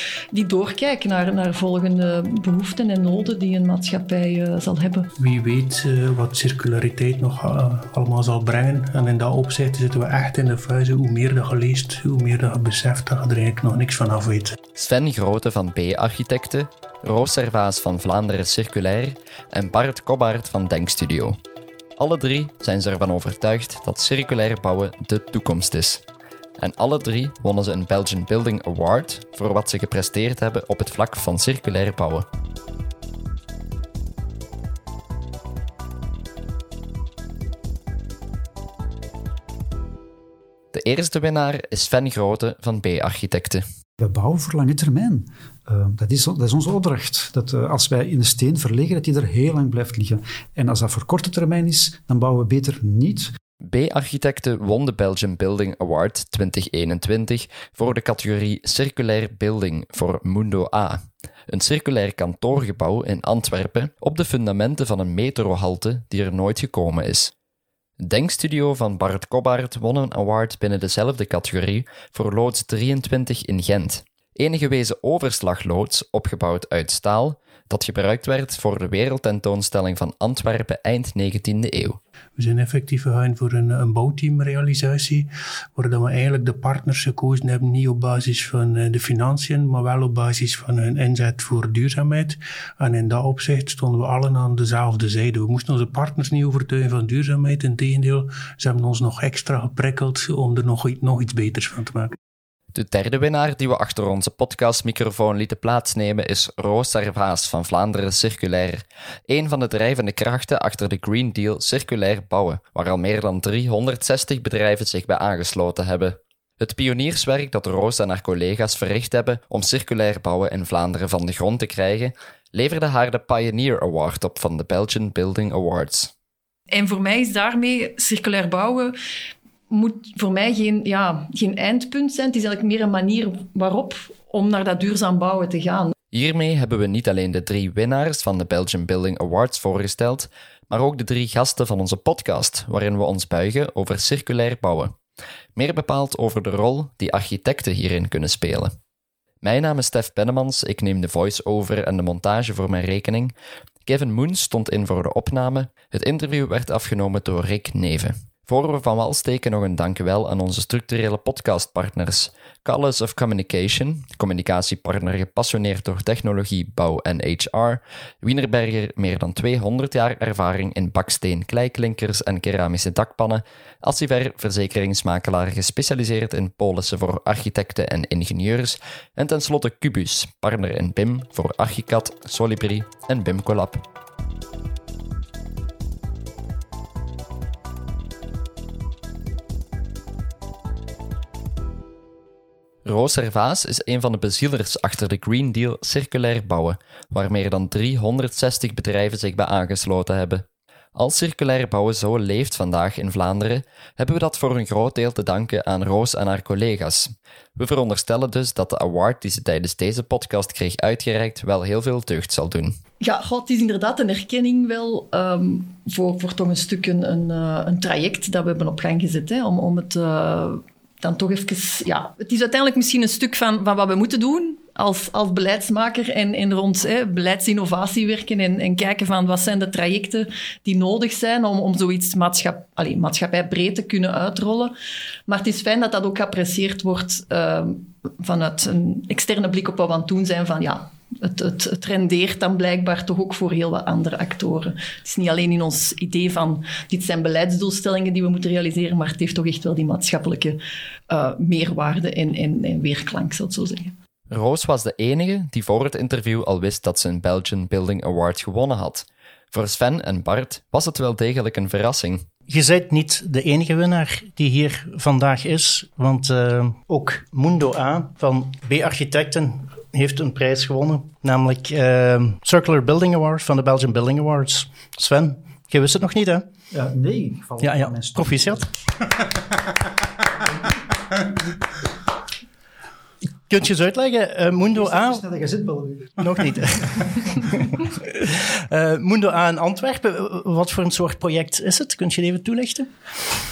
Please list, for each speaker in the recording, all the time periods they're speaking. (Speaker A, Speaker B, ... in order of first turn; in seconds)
Speaker A: 0.3-5.1, 126.7-128.9, 129.7-135.9, 213.0-234.7, 235.3-253.9
Speaker B: 5.2-14.6, 82.4-102.2
Speaker C: 14.8-21.4, 22.0-26.0, 26.6-32.2, 40.7-43.6, 53.6-67.3, 68.0-82.0, 102.7-126.1, 136.1-144.9, 145.6-148.7, 149.4-153.3, 153.8-183.8, 192.8-212.8, 254.3-262.2
Speaker D: 44.0-53.3, 276.7-278.7, 284.7-287.2
Speaker E: 262.5-276.4, 277.6-278.7, 283.5-285.2, 286.2-292.9